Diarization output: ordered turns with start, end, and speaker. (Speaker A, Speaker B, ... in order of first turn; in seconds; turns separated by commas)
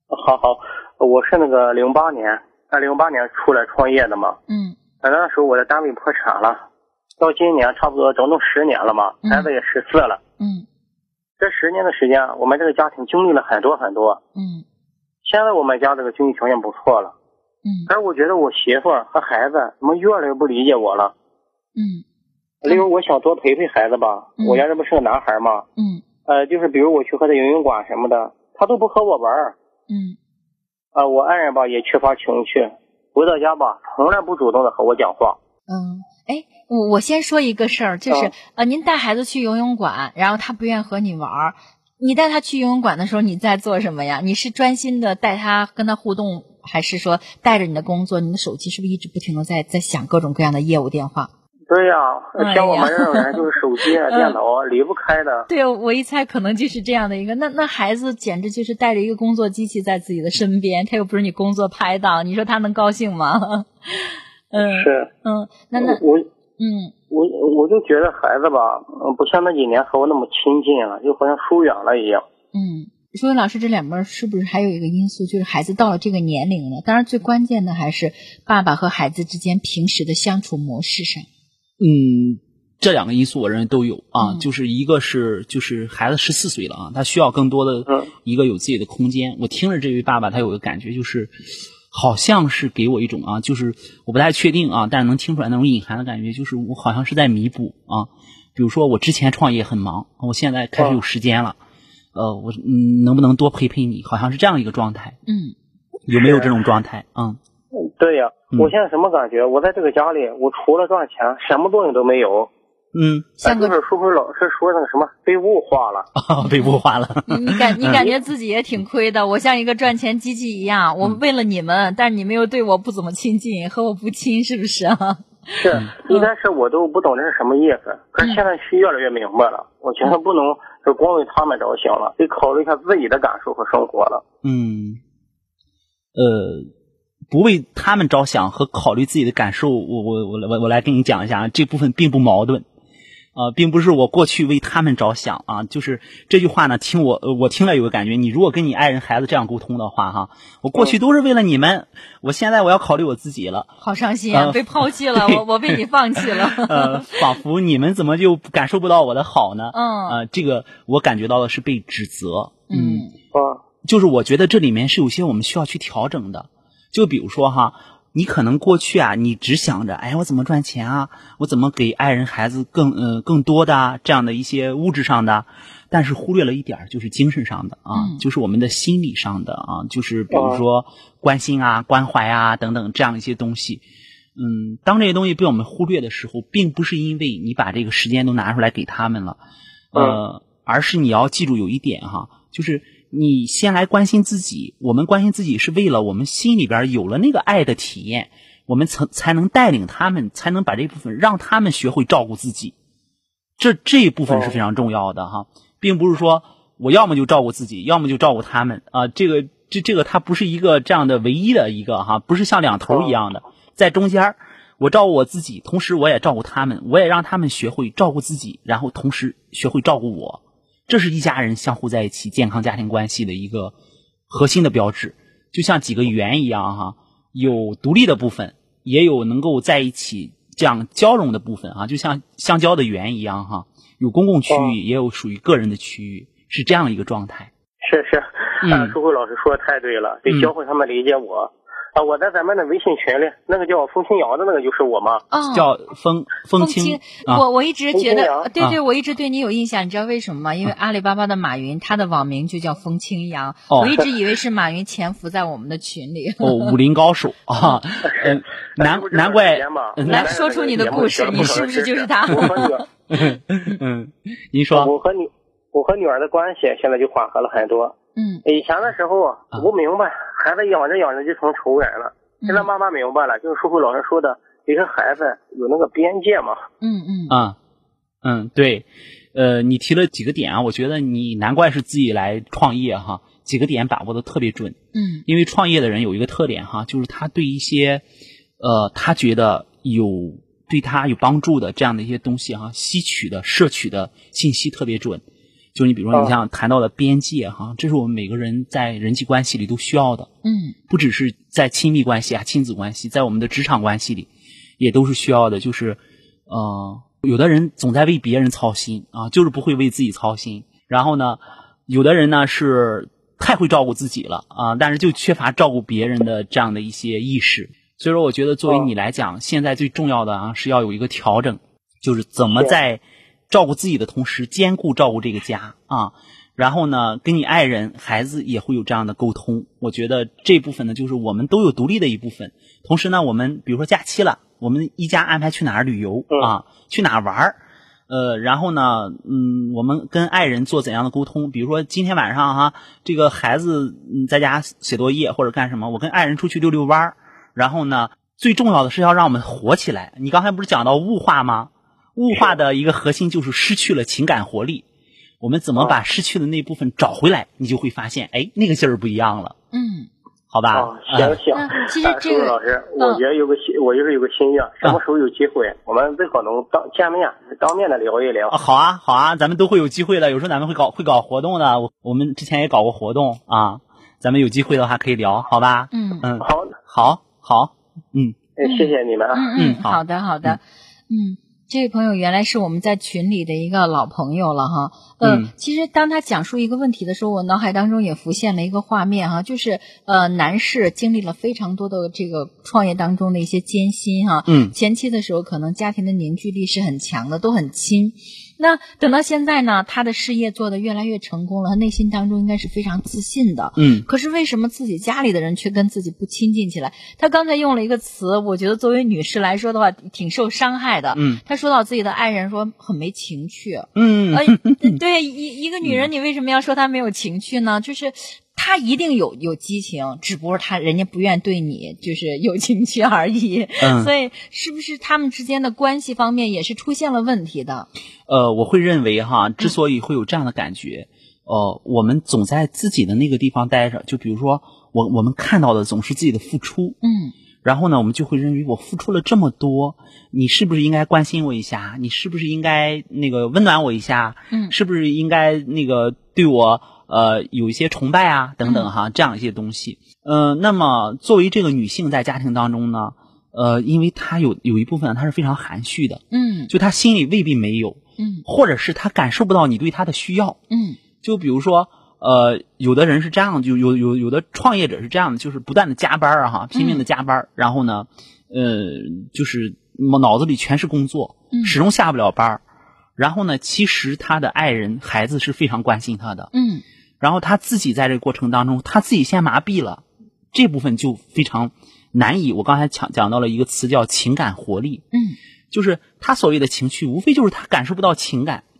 Speaker A: 0.1-4.4, Speaker B: 4.5-4.8, Speaker A: 5.0-6.6, Speaker A: 7.2-10.2, Speaker B: 9.2-9.5, Speaker B: 10.4-10.7, Speaker A: 11.4-14.2, Speaker B: 14.3-14.6, Speaker A: 15.2-17.1, Speaker B: 17.6-17.9, Speaker A: 17.9-21.1, Speaker B: 21.8-22.0, Speaker A: 22.6-25.6, Speaker B: 24.4-24.6, Speaker B: 25.8-26.0, Speaker A: 26.2-29.5, Speaker B: 29.9-30.1, Speaker A: 30.9-35.4, Speaker B: 35.7-51.3, Speaker A: 51.7-55.5, Speaker B: 52.4-53.5, Speaker B: 55.5-66.0, Speaker A: 64.6-65.1, Speaker A: 65.8-66.3, Speaker B: 66.6-66.9, Speaker A: 67.1-72.2, Speaker B: 72.5-81.2, Speaker C: 81.8-91.3, Speaker C: 91.9-101.6, Speaker C: 102.1-105.2, Speaker B: 105.3-105.5, Speaker C: 106.1-107.4, Speaker A: 106.1-106.5, Speaker A: 107.7-112.5, Speaker C: 112.9-113.4, Speaker B: 113.4-113.8, Speaker A: 113.4-116.1, Speaker C: 116.2-118.0, Speaker B: 116.4-116.7, Speaker B: 117.3-125.6, Speaker A: 125.6-134.2, Speaker C: 134.4-135.0, Speaker C: 136.1-136.7, Speaker C: 137.3-142.6, Speaker C: 143.3-153.7, Speaker B: 153.8-157.2, Speaker C: 154.3-163.1, Speaker B: 159.7-160.2, Speaker B: 162.7-163.1, Speaker A: 163.3-163.6, Speaker C: 163.8-183.8, Speaker B: 177.9-178.2, Speaker A: 180.3-180.6, Speaker C: 184.3-189.4, Speaker C: 189.9-202.7, Speaker A: 189.9-190.2, Speaker C: 203.6-223.7, Speaker A: 204.3-204.6, Speaker C: 224.3-237.5, Speaker A: 237.8-245.2, Speaker C: 238.6-238.9, Speaker C: 240.3-240.5, Speaker B: 245.3-245.7, Speaker C: 245.5-247.4, Speaker B: 246.6-256.8, Speaker A: 247.9-248.5, Speaker C: 253.7-254.0, Speaker C: 256.4-261.5, Speaker A: 258.1-262.9, Speaker B: 260.0-262.7, Speaker C: 263.1-264.9, Speaker A: 264.7-276.6, Speaker B: 268.1-268.4, Speaker B: 272.4-272.7, Speaker B: 276.8-277.4, Speaker C: 277.3-277.6, Speaker C: 278.2-288.0, Speaker B: 284.9-285.2, Speaker C: 288.6-295.2, Speaker C: 295.7-300.3, Speaker B: 300.4-300.8, Speaker C: 300.9-354.8, Speaker C: 355.4-359.5, Speaker B: 359.7-360.1, Speaker C: 360.5-361.4, Speaker A: 360.7-368.5, Speaker B: 361.5-363.2, Speaker C: 368.5-378.4, Speaker B: 375.9-376.2, Speaker A: 376.4-376.7, Speaker A: 378.6-379.4, Speaker B: 378.6-427.9, Speaker C: 379.6-380.6, Speaker C: 385.2-385.5, Speaker C: 394.5-394.7, Speaker C: 403.8-404.0, Speaker C: 411.1-411.4, Speaker C: 413.9-415.0, Speaker C: 415.8-416.1, Speaker C: 423.8-424.1, Speaker C: 428.3-437.0, Speaker B: 437.0-437.3, Speaker C: 437.6-460.6, Speaker B: 448.6-448.9, Speaker B: 456.3-456.7, Speaker B: 458.2-458.4, Speaker B: 460.7-461.0, Speaker C: 461.2-472.6, Speaker B: 466.7-467.0, Speaker B: 471.5-471.8, Speaker C: 473.2-476.5, Speaker B: 476.5-476.8, Speaker C: 477.2-485.0, Speaker B: 485.1-485.4, Speaker C: 485.7-488.6